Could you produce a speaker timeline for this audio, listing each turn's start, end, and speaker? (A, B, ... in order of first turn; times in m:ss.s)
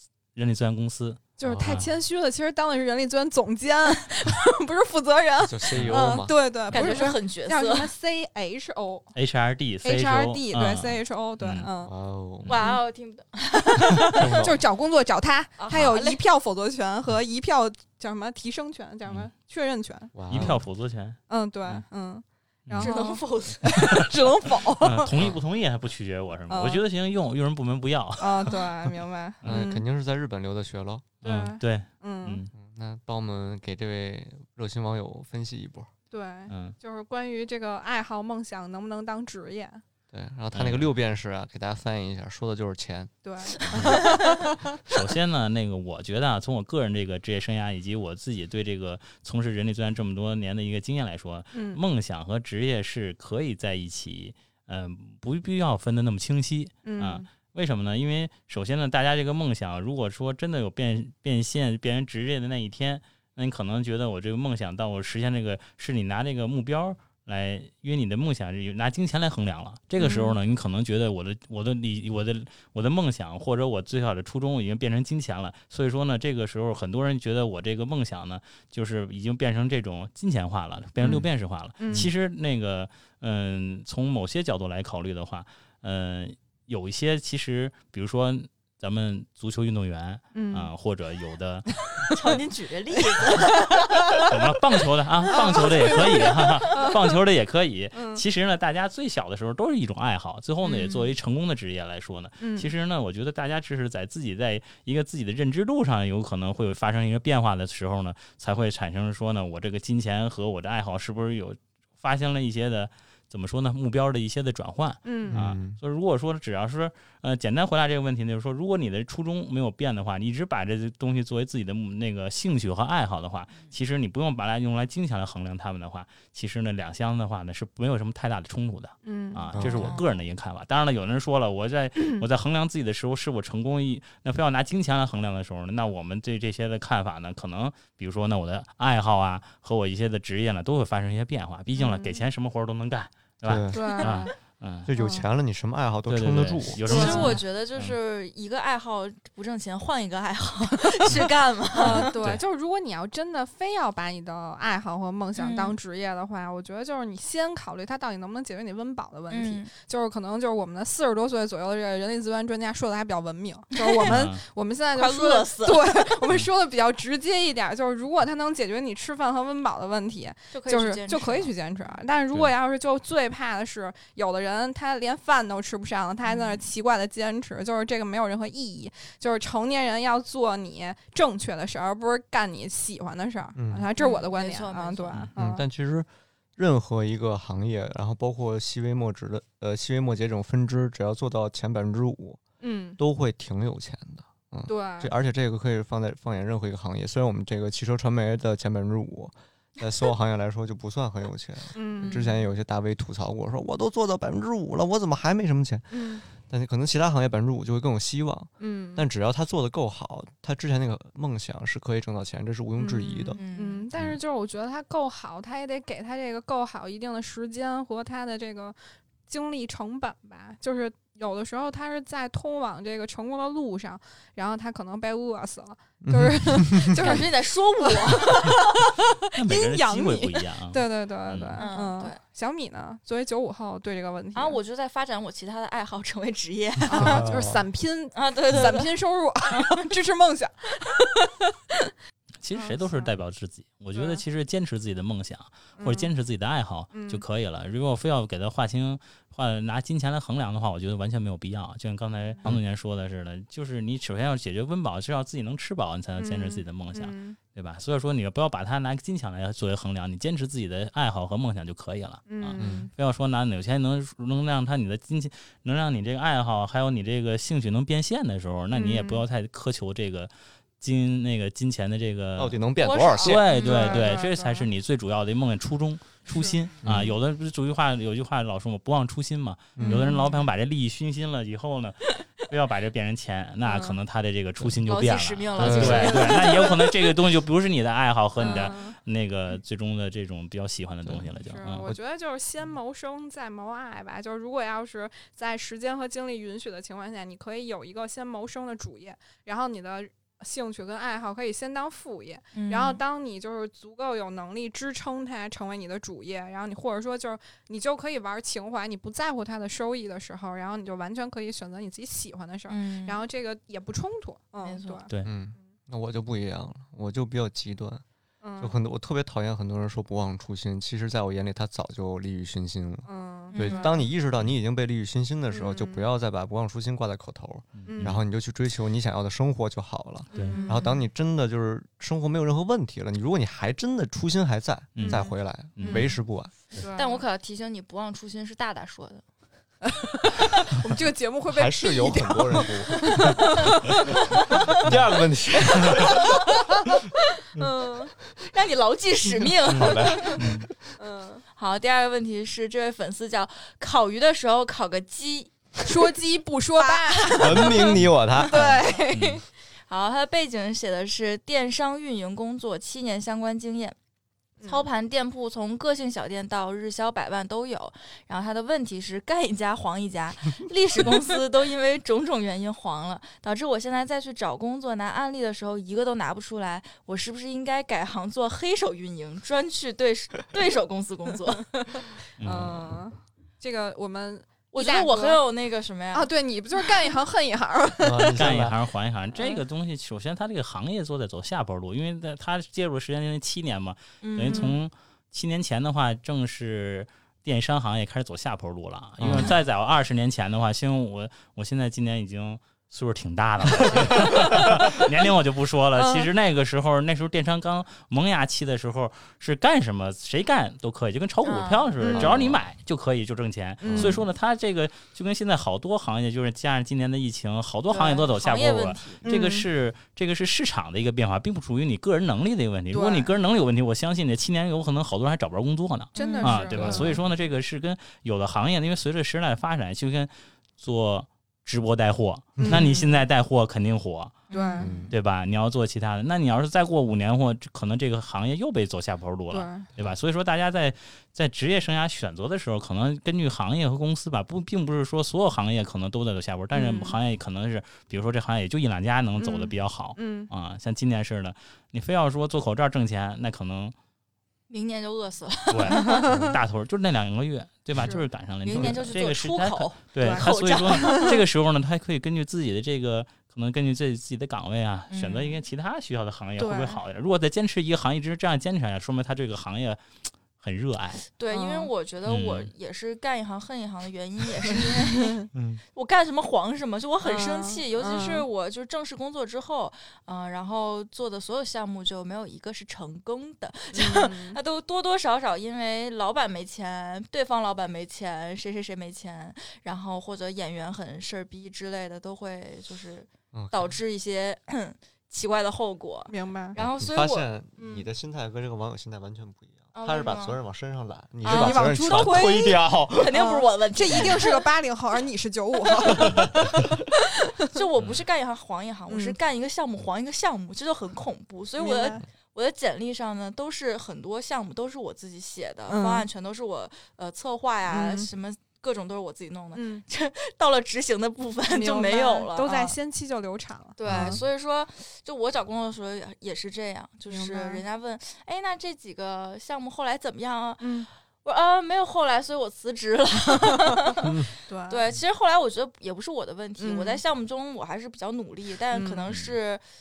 0:00.3-0:01.9 A
0:01.4-0:09.1 B
0:05.4-0:06.3 C
0:05.7-0:06.0 A
0:06.7-0:07.9 D
0:09.1-0:11.7 A
0:09.8-0:11.9 B
0:11.8-0:12.6 C
0:12.5-0:14.1 D
0:13.7-0:20.1 B
0:14.0-0:14.6 C
0:15.6-0:16.2 D
0:20.1-0:20.6 C
0:20.3-0:21.8 A
0:21.3-0:25.1 B
0:22.6-0:23.0 A
0:22.8-0:23.7 D
0:24.8-0:29.6 A
0:25.1-0:25.4 C
0:26.5-0:26.8 B
0:28.2-0:29.8 B
0:29.4-0:31.2 C
0:31.2-0:32.4 B
0:31.2-0:32.5 A
0:32.5-0:35.9 C
0:36.1-0:39.8 B
0:36.5-0:36.8 A
0:40.1-0:43.1 C
0:40.5-0:40.9 A
0:43.2-0:44.6 B
0:43.6-0:44.1 C
0:43.7-0:44.0 A
0:44.9-1:31.8 A
0:51.5-0:51.8 B
0:56.8-0:57.2 B
1:10.0-1:10.4 B
1:21.8-1:22.1 B
1:30.3-1:30.7 B
1:32.1-1:33.6 D
1:34.2-2:24.9 A
1:35.3-1:37.0 B
1:35.9-1:36.2 D
1:37.9-1:38.2 B
1:40.6-1:41.1 D
1:42.4-1:42.7 B
1:55.0-1:55.4 B
1:55.2-1:55.8 C
2:09.0-2:09.5 B
2:09.5-2:10.0 C
2:09.6-2:10.0 D
2:12.0-2:12.2 B
2:21.8-2:22.2 B
2:23.4-2:24.0 C
2:23.7-2:24.3 B
2:24.8-2:27.4 C
2:25.0-2:25.2 B
2:26.1-2:28.0 A
2:26.8-2:32.1 D
2:26.8-2:27.4 B
2:30.9-3:05.6 B
2:31.8-2:32.4 A
2:35.4-2:35.8 D
2:39.3-2:39.7 D
2:44.0-2:44.4 A
2:44.9-2:46.2 D
2:50.5-2:52.0 D
2:56.2-2:56.7 D
3:03.5-3:03.9 C
3:04.0-3:05.3 D
3:05.3-3:12.4 C
3:12.6-3:13.0 B
3:13.0-3:33.4 C
3:14.7-3:15.1 B
3:21.7-3:22.4 B
3:25.9-3:26.2 B
3:28.6-3:29.0 B
3:32.8-3:38.8 B
3:33.3-3:33.8 D
3:39.3-3:54.6 B
3:46.0-3:47.2 C
3:46.8-3:48.5 D
3:49.3-3:51.6 A
3:51.5-3:52.2 D
3:54.3-3:57.2 D
3:56.9-4:01.9 B
3:56.9-3:57.6 A
3:58.1-3:58.9 D
3:59.5-3:59.8 D
4:02.4-4:32.6 A
4:02.5-4:03.1 B
4:03.9-4:04.2 B
4:05.8-4:06.1 B
4:06.9-4:07.2 B
4:16.2-4:17.4 B
4:22.2-4:22.9 B
4:22.6-4:22.9 C
4:28.7-4:29.2 B
4:32.4-4:33.5 C
4:32.8-4:34.2 D
4:33.2-4:51.9 A
4:33.5-4:34.7 B
4:36.8-4:37.1 C
4:39.8-4:40.0 C
4:39.8-4:40.1 B
4:39.8-4:40.4 D
4:43.6-4:44.0 B
4:44.8-4:46.8 D
4:45.6-4:46.3 C
4:46.0-4:46.9 B
4:48.4-4:49.0 B
4:51.0-4:51.3 C
4:51.4-5:15.6 B
5:02.5-5:03.0 D
5:12.7-5:13.2 D
5:14.6-5:15.0 D
5:15.2-5:18.0 C
5:18.4-5:18.7 B
5:18.6-5:36.7 C
5:23.1-5:23.9 B
5:23.5-5:24.1 D
5:25.5-5:26.1 B
5:27.8-5:28.2 A
5:27.8-5:28.2 B
5:30.3-5:30.6 A
5:30.3-5:30.9 B
5:30.4-5:31.0 D
5:34.9-5:35.2 A
5:35.0-5:35.3 B
5:35.1-5:35.3 D
5:35.7-5:36.0 A
5:35.8-5:36.2 B
5:36.7-5:37.2 B
5:36.9-5:39.2 D
5:39.8-5:45.0 B
5:41.4-5:43.4 C
5:44.7-5:46.2 C
5:45.7-5:48.1 B
5:48.5-5:50.3 D
5:49.4-5:50.7 C
5:50.4-5:50.7 A
5:51.0-5:51.4 B
5:51.5-5:56.1 D
5:55.8-5:59.4 B
5:56.8-5:59.0 D
5:57.4-5:58.8 C
5:58.5-5:59.4 A
5:59.9-6:04.0 D
6:04.6-6:04.9 B
6:04.6-6:22.0 D
6:21.9-6:25.4 B
6:22.4-6:23.0 A
6:24.7-6:26.3 D
6:26.1-6:28.5 B
6:28.0-6:28.8 C
6:28.3-7:14.4 A
6:29.3-6:29.6 B
6:34.2-6:34.8 D
6:39.2-6:39.5 C
6:39.2-6:39.5 D
6:43.7-6:45.0 C
6:46.0-6:46.2 D
6:51.4-6:52.3 D
6:52.0-6:52.3 B
6:52.1-6:52.6 C
6:53.8-6:54.2 B
6:53.8-6:54.2 C
6:57.9-6:59.2 D
6:59.3-6:59.7 B
7:02.9-7:03.3 B
7:06.1-7:07.2 D
7:06.1-7:07.2 B
7:06.7-7:07.1 C
7:12.6-7:13.2 B
7:14.5-7:15.0 D
7:14.5-7:15.0 B
7:14.8-7:15.1 C
7:15.1-7:33.9 A
7:19.5-7:19.9 B
7:26.7-7:27.2 B
7:29.4-7:30.5 B
7:34.7-7:36.2 D
7:35.7-7:51.2 A
7:36.0-7:36.5 B
7:38.0-7:38.2 B
7:38.6-7:41.4 D
7:40.2-7:41.3 B
7:45.1-7:45.6 D
7:46.6-7:47.0 B
7:51.3-7:55.4 D
7:51.5-7:51.9 B
7:52.2-7:52.7 A
7:55.5-7:55.8 C
7:55.9-8:17.5 D
7:57.2-7:58.5 B
8:03.9-8:04.6 B
8:13.5-8:14.0 C
8:16.3-8:16.8 B
8:16.7-8:23.4 C
8:17.8-8:18.1 B
8:19.9-8:20.6 D
8:21.4-8:22.5 D
8:21.4-8:26.8 B
8:23.2-8:24.6 D
8:26.1-8:26.7 C
8:27.7-8:43.0 D
8:28.0-8:28.2 A
8:29.1-8:29.4 B
8:31.8-8:32.2 B
8:35.9-8:36.3 B
8:37.9-8:38.3 B
8:39.7-8:40.0 B
8:41.7-8:44.3 B
8:44.0-8:54.3 D
8:44.0-8:44.4 C
8:47.3-8:47.8 B
8:50.8-8:51.1 B
8:54.2-8:54.5 C
8:54.6-8:55.0 B
8:54.9-8:59.8 D
8:56.8-8:57.2 B
8:58.9-8:59.3 B